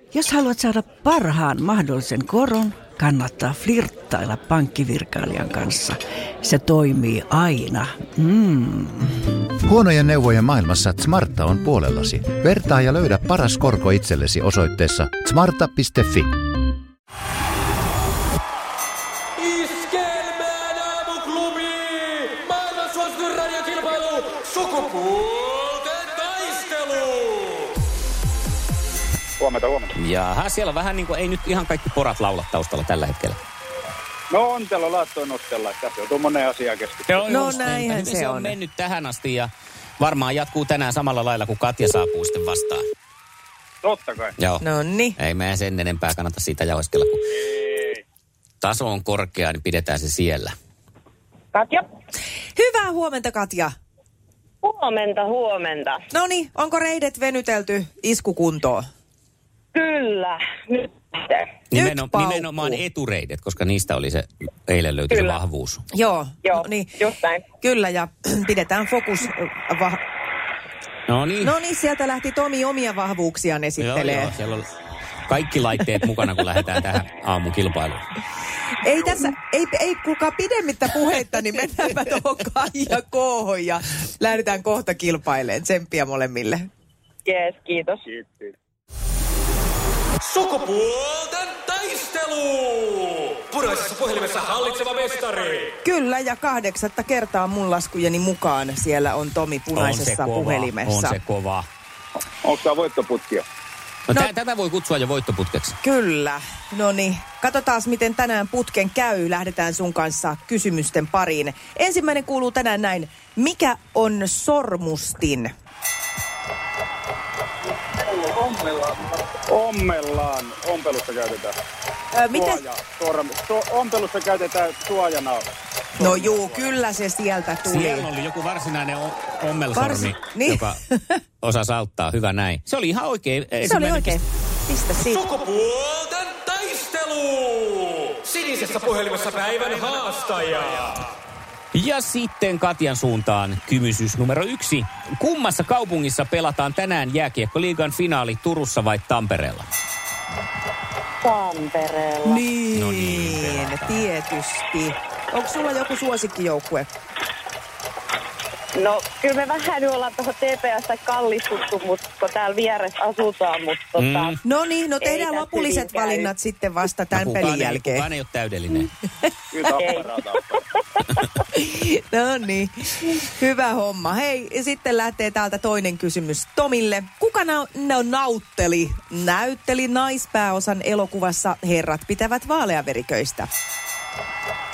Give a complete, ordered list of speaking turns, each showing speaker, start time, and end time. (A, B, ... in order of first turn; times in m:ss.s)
0:00.1-0:09.1 A
0:09.6-0:16.3 B
0:19.5-0:27.3 C
0:29.4-0:29.9 D
0:30.0-0:33.4 E
0:34.3-0:37.5 D
0:37.1-0:42.9 E
0:37.3-0:38.6 F
0:43.8-0:44.3 D
0:44.4-0:44.6 E
0:44.6-0:45.2 F
0:45.2-0:47.3 E
0:48.6-0:50.6 E
0:51.5-0:51.9 G
0:52.6-0:53.7 F
0:54.6-0:56.1 G
0:56.1-0:58.8 F
0:59.7-1:01.6 G
1:01.7-1:02.8 F
1:01.7-1:05.8 E
1:05.1-1:05.4 G
1:05.9-1:07.0 F
1:06.4-1:07.5 G
1:07.6-1:10.0 F
1:11.1-1:11.6 E
1:11.4-1:14.4 F
1:13.8-1:14.7 E
1:15.3-1:18.0 E
1:18.8-1:26.7 F
1:27.2-1:28.5 G
1:30.3-1:35.7 C
1:35.8-1:41.2 F
1:39.7-1:41.7 E
1:42.4-1:43.4 D
1:44.1-1:45.8 E
1:45.8-1:55.5 F
1:58.1-2:01.6 D
2:02.1-2:02.6 F
2:02.3-2:05.5 D
2:06.0-2:06.7 D
2:06.0-2:08.1 F
2:07.6-2:10.8 E
2:09.7-2:11.2 F
2:11.4-2:14.2 E
2:13.6-2:15.4 F
2:15.3-2:20.9 C
2:21.7-2:29.7 E
2:31.2-2:32.5 G
2:32.2-2:36.9 F
2:32.7-2:34.1 E
2:38.8-2:44.4 G
2:44.0-2:44.4 E
2:44.4-2:48.1 F
2:45.0-2:46.3 G
2:47.1-2:48.9 E
2:49.5-2:50.6 D
2:49.7-2:50.4 G
2:51.5-3:03.5 F